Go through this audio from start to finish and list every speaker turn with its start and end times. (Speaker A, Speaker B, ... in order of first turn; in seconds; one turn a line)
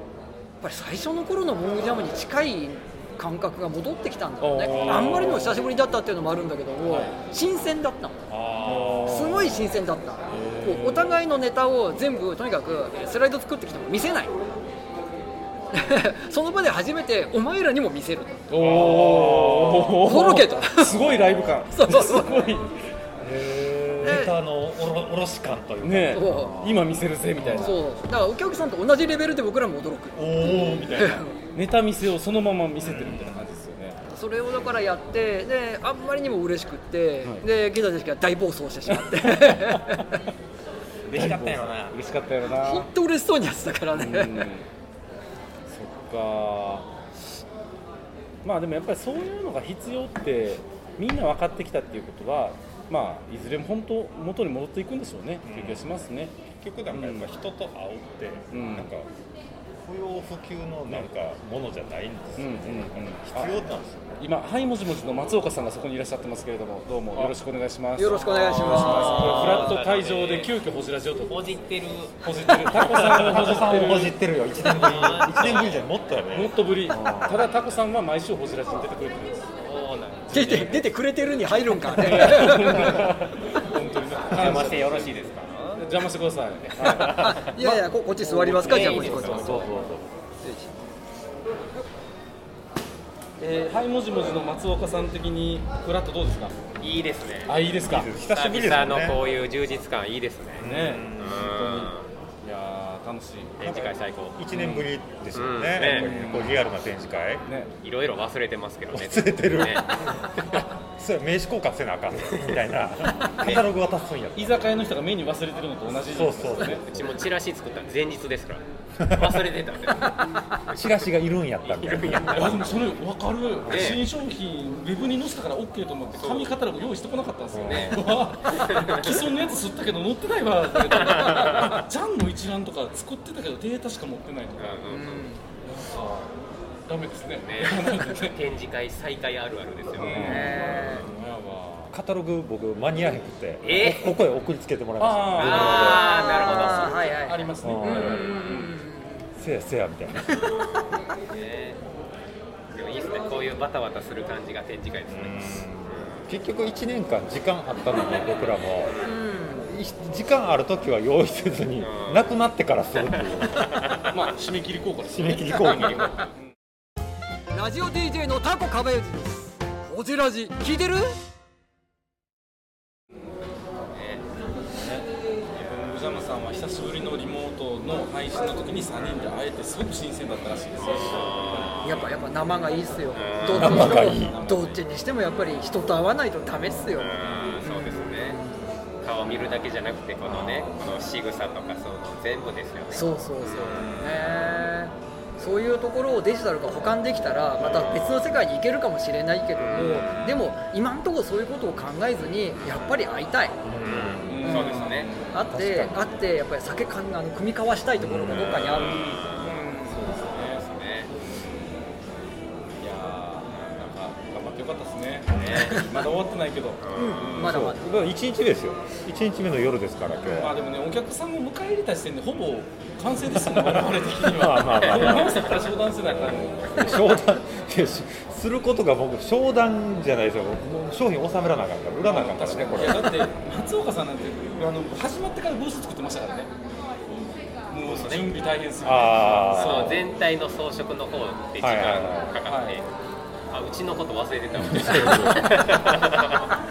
Speaker A: 0.6-8.3
Speaker B: 4.4-5.6
Speaker C: 4.7-5.4
Speaker B: 6.8-7.2
Speaker C: 8.3-9.3
Speaker B: 8.6-9.7
Speaker A: 9.1-14.4
Speaker B: 10.3-11.2
Speaker A: 15.7-18.4
Speaker B: 18.5-22.8
Speaker C: 18.6-20.0
Speaker A: 20.0-21.0
Speaker C: 21.0-21.6
Speaker A: 21.7-22.4
Speaker C: 23.2-27.7
Speaker B: 23.6-24.0
Speaker A: 24.0-24.3
Speaker B: 25.8-27.8
Speaker A: 26.1-26.6
Speaker A: 27.6-31.4
Speaker C: 30.1-31.2
Speaker B: 31.5-34.0
Speaker C: 32.8-33.5
Speaker A: 34.1-40.2
Speaker B: 39.0-39.7
Speaker B: 41.1-42.9
Speaker C: 41.1-42.0
Speaker A: 42.6-44.5
Speaker B: 44.0-44.7
Speaker B: 45.7-46.9
Speaker B: 48.4-56.4
Speaker C: 55.5-56.0
Speaker C: 56.6-59.1
Speaker B: 56.9-57.3
Speaker B: 58.5-58.9
Speaker C: 59.8-64.2
Speaker B: 62.4-63.6
Speaker B: 64.2-71.6
Speaker A: 68.0-69.7
Speaker D: 68.4-70.5
Speaker D: 71.2-72.2
Speaker B: 72.2-74.2
Speaker C: 72.7-77.4
Speaker D: 74.5-75.9
Speaker B: 75.2-75.7
Speaker B: 76.3-79.5
Speaker D: 79.6-80.3
Speaker B: 80.3-80.8
Speaker A: 80.3-82.9
Speaker B: 81.9-85.1
Speaker D: 84.3-85.8
Speaker B: 85.8-87.4
Speaker C: 86.8-87.8
Speaker A: 87.1-89.7
Speaker B: 88.2-89.7
Speaker D: 88.6-89.7
Speaker C: 88.7-90.1
Speaker A: 90.4-90.7
Speaker B: 93.4-96.6
Speaker D: 96.8-97.5
Speaker B: 97.5-98.1
Speaker C: 97.8-99.2
Speaker D: 98.2-100.6
Speaker C: 100.6-101.9
Speaker B: 100.6-101.9
Speaker D: 101.2-102.1
Speaker B: 102.4-103.6
Speaker D: 103.6-104.4
Speaker C: 103.6-107.5
Speaker B: 104.5-104.9
Speaker D: 105.3-106.2
Speaker B: 105.9-106.6
Speaker B: 107.5-107.7
Speaker D: 107.8-110.7
Speaker C: 108.9-114.6
Speaker B: 114.3-116.9
Speaker C: 116.1-117.2
Speaker D: 116.8-120.2
Speaker C: 119.0-119.5
Speaker C: 120.7-122.5
Speaker D: 121.6-122.8
Speaker B: 122.3-134.8
Speaker C: 123.7-123.9
Speaker D: 123.7-124.0
Speaker D: 126.1-126.6
Speaker C: 127.5-128.0
Speaker D: 127.6-129.2
Speaker D: 130.9-131.8
Speaker D: 134.6-135.3
Speaker A: 134.9-135.4
Speaker B: 135.6-136.3
Speaker B: 136.9-138.4
Speaker D: 137.4-140.8
Speaker B: 140.0-141.9
Speaker C: 140.0-140.8
Speaker A: 140.1-141.1
Speaker C: 141.9-146.9
Speaker D: 143.6-144.2
Speaker B: 145.0-146.0
Speaker D: 145.4-147.0
Speaker A: 145.7-149.3
Speaker B: 147.2-148.8
Speaker C: 147.6-148.3
Speaker C: 149.4-150.4
Speaker D: 151.3-151.8
Speaker D: 152.7-156.2
Speaker C: 155.1-158.9
Speaker D: 158.0-159.1
Speaker A: 159.0-159.7
Speaker C: 159.7-164.0
Speaker D: 161.8-162.3
Speaker D: 163.0-164.1
Speaker B: 164.1-166.4
Speaker C: 165.0-166.1
Speaker A: 167.5-171.1
Speaker D: 173.9-174.2
Speaker B: 174.7-175.1
Speaker B: 175.6-181.8
Speaker D: 181.0-182.1
Speaker A: 181.8-188.6
Speaker D: 183.1-183.9
Speaker C: 183.4-184.4
Speaker B: 183.6-184.8
Speaker D: 187.0-188.4
Speaker D: 189.0-194.4
Speaker C: 190.2-190.8
Speaker A: 192.9-203.6
Speaker D: 197.6-198.2
Speaker D: 199.6-200.3
Speaker B: 199.7-200.2
Speaker D: 202.6-202.9
Speaker C: 203.6-204.6
Speaker D: 203.8-205.1
Speaker B: 204.3-205.4
Speaker A: 204.4-209.3
Speaker C: 205.5-206.1
Speaker C: 208.0-208.7
Speaker D: 208.3-211.1
Speaker B: 208.9-210.6
Speaker B: 212.8-217.6
Speaker D: 215.3-215.9
Speaker D: 216.8-217.4
Speaker A: 216.9-217.9
Speaker C: 217.4-220.6
Speaker B: 220.2-227.0
Speaker C: 223.4-233.3
Speaker D: 224.8-225.6
Speaker B: 232.0-236.5
Speaker B: 237.1-240.1
Speaker D: 237.8-238.3
Speaker C: 238.8-240.0
Speaker D: 239.5-242.8
Speaker C: 241.6-242.4
Speaker B: 242.4-242.8
Speaker D: 243.5-246.6
Speaker C: 244.6-245.8